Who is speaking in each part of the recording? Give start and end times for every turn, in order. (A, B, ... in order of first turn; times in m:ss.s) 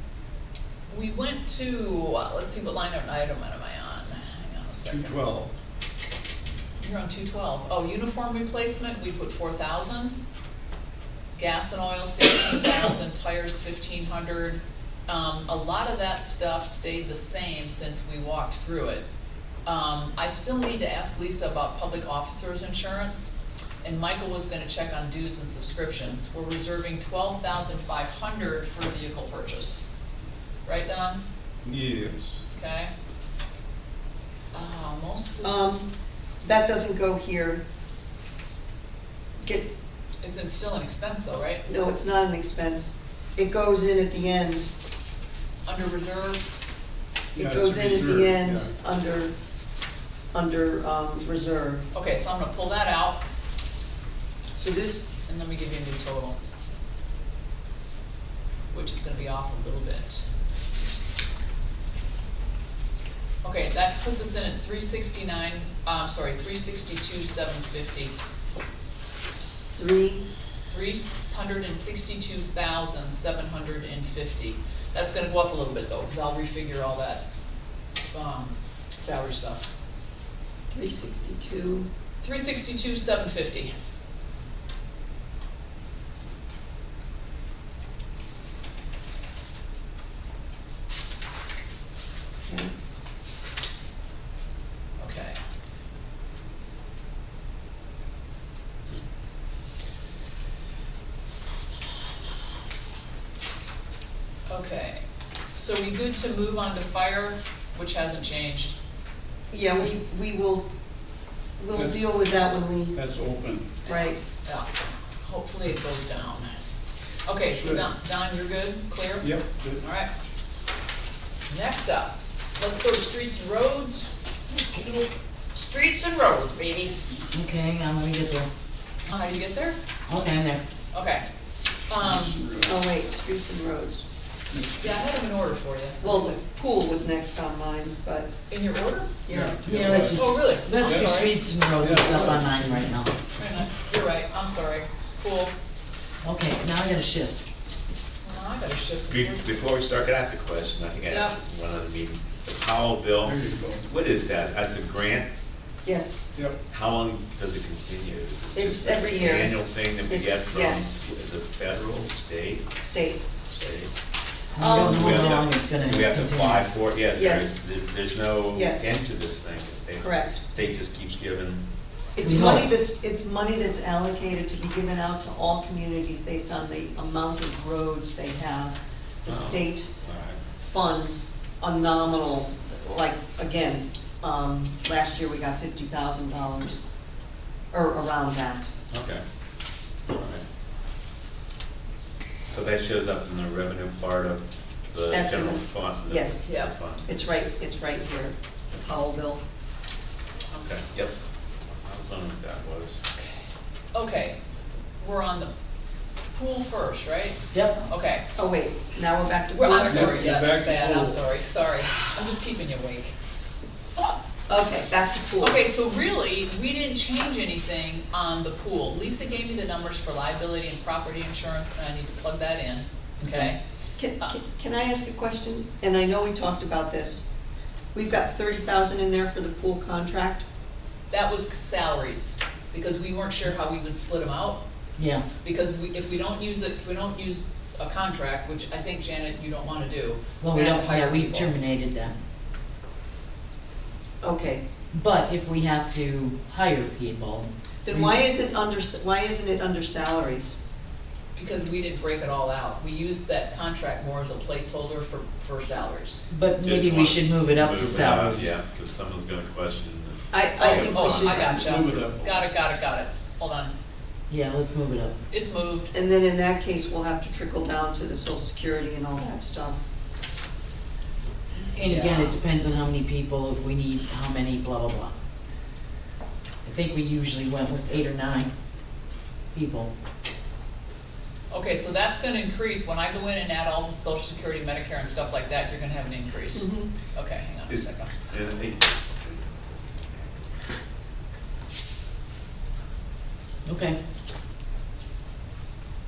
0:00.9-0:05.2 A
0:04.9-0:05.5 B
0:06.8-0:10.2 A
0:11.3-0:19.0 A
0:19.6-0:29.9 A
0:30.6-0:31.2 A
0:31.6-0:32.4 B
0:32.5-0:32.9 A
0:34.5-0:35.7 A
0:35.4-0:35.9 C
0:36.4-0:37.6 C
0:39.4-0:39.7 C
0:40.2-0:41.6 A
0:41.6-0:44.7 C
0:45.6-0:46.4 A
0:47.3-0:48.7 B
0:47.3-0:49.3 C
0:50.3-0:51.9 C
0:51.9-0:53.2 A
0:54.6-0:55.1 C
0:55.2-0:56.4 A
0:58.7-1:00.2 A
1:03.4-1:08.1 A
1:09.8-1:10.3 C
1:10.7-1:17.2 A
1:18.1-1:19.6 A
1:20.7-1:21.9 C
1:22.2-1:23.7 A
1:35.0-1:35.4 A
1:44.5-1:45.0 A
1:45.5-1:48.8 A
1:49.5-1:50.7 C
1:51.6-1:53.0 C
1:51.7-1:52.1 B
1:52.9-1:53.8 B
1:53.8-1:54.2 C
1:53.8-1:54.7 A
1:55.2-1:56.5 A
1:57.2-2:00.1 A
1:57.5-1:57.9 B
1:59.2-1:59.8 B
2:01.5-2:07.0 A
2:07.3-2:08.5 D
2:09.0-2:09.8 A
2:10.1-2:10.6 D
2:10.9-2:11.2 A
2:11.9-2:12.4 A
2:12.0-2:12.8 B
2:12.6-2:14.0 C
2:14.8-2:16.4 A
2:16.0-2:18.3 C
2:18.5-2:19.1 A
2:19.2-2:20.0 C
2:19.3-2:20.2 B
2:19.6-2:23.1 D
2:20.1-2:21.3 A
2:20.8-2:21.2 B
2:21.8-2:22.9 B
2:23.4-2:25.5 A
2:26.2-2:27.4 D
2:28.2-2:29.5 A
2:29.1-2:35.3 E
2:31.1-2:31.4 A
2:33.2-2:33.8 B
2:35.8-2:36.2 C
2:36.7-2:42.7 E
2:38.5-2:40.9 C
2:42.8-2:43.2 C
2:43.4-2:43.9 E
2:44.5-2:46.7 D
2:44.6-2:45.4 C
2:44.6-2:51.6 E
2:47.1-2:47.5 C
2:48.5-2:48.9 C
2:50.0-2:50.4 C
2:52.1-2:59.9 C
2:52.2-2:52.7 D
2:59.2-3:00.4 E
3:00.6-3:06.8 C
3:07.7-3:08.7 C
3:08.9-3:09.2 E
3:10.1-3:10.4 E
3:12.4-3:17.1 E
3:15.1-3:16.4 C
3:16.4-3:16.7 A
3:17.0-3:19.4 C
3:20.5-3:21.1 E
3:21.7-3:23.0 E
3:23.1-3:23.4 A
3:23.9-3:24.4 A
3:25.0-3:25.5 A
3:26.3-3:28.2 A
3:27.5-3:27.8 D
3:28.4-3:30.3 C
3:29.5-3:33.1 A
3:29.8-3:31.2 B
3:34.5-3:35.6 C
3:35.4-3:43.6 A
3:44.0-3:47.2 C
3:47.9-3:50.4 C
3:51.1-3:54.6 A
3:55.0-3:55.2 D
3:55.4-4:01.5 A
4:00.4-4:02.2 D
4:04.2-4:04.6 C
4:04.9-4:08.2 D
4:07.8-4:10.6 C
4:11.3-4:16.2 A
4:16.3-4:18.5 D
4:16.6-4:22.4 E
4:20.3-4:21.6 C
4:20.6-4:23.7 A
4:21.6-4:22.3 B
4:24.3-4:25.2 D
4:25.3-4:25.9 A
4:25.9-4:29.8 C
4:31.6-4:35.1 D
4:31.8-4:32.4 A
4:36.6-4:38.5 D
4:39.5-4:39.9 D
4:41.5-4:48.1 A
4:46.5-4:46.9 C
4:47.7-4:50.8 E
4:53.6-4:54.0 D